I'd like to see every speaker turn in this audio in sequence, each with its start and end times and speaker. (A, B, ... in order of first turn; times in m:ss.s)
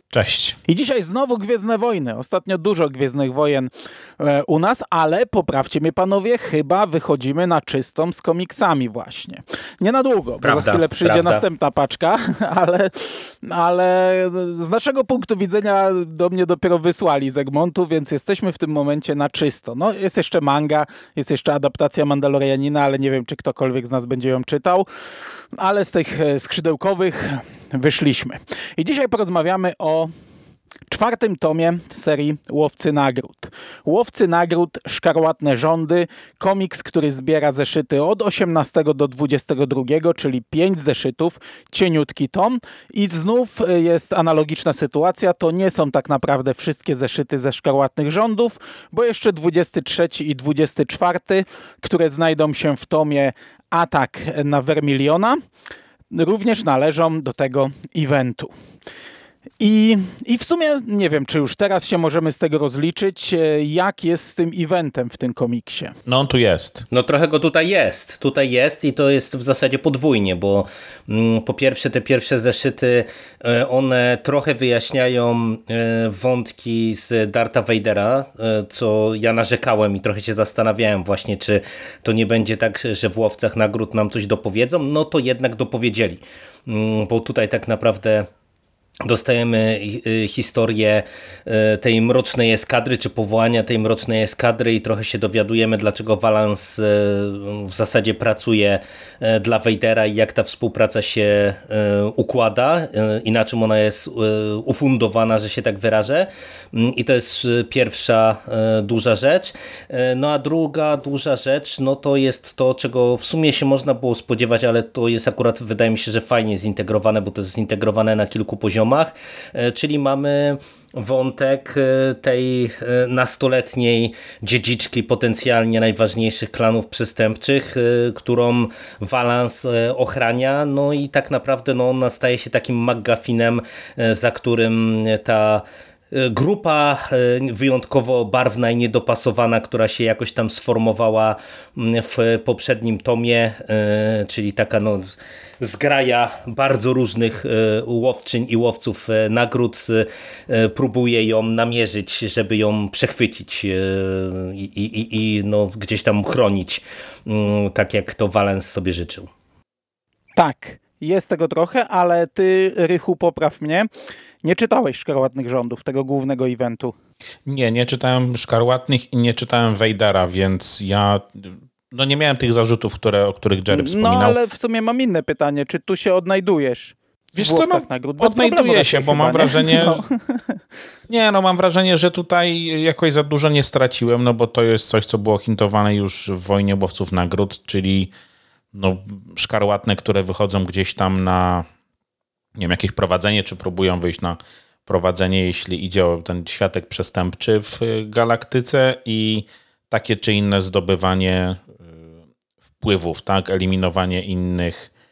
0:00.1-0:00.6 A
0:00.7-0:24.9 B
0:10.4-0:11.4 C
0:25.6-0:30.1 B
0:30.9-0:55.4 B
0:56.1-0:58.5 B
0:59.6-1:06.0 B
1:06.1-1:06.8 A
1:06.9-1:28.3 C
1:29.0-2:39.3 C
2:40.4-2:43.9 B
2:44.4-2:46.9 B
2:47.5-2:54.4 A
2:53.7-3:00.6 B
2:57.4-3:00.0 A
3:01.1-3:08.1 A
3:08.7-3:11.7 A
3:12.6-3:22.0 A
3:22.8-3:24.9 A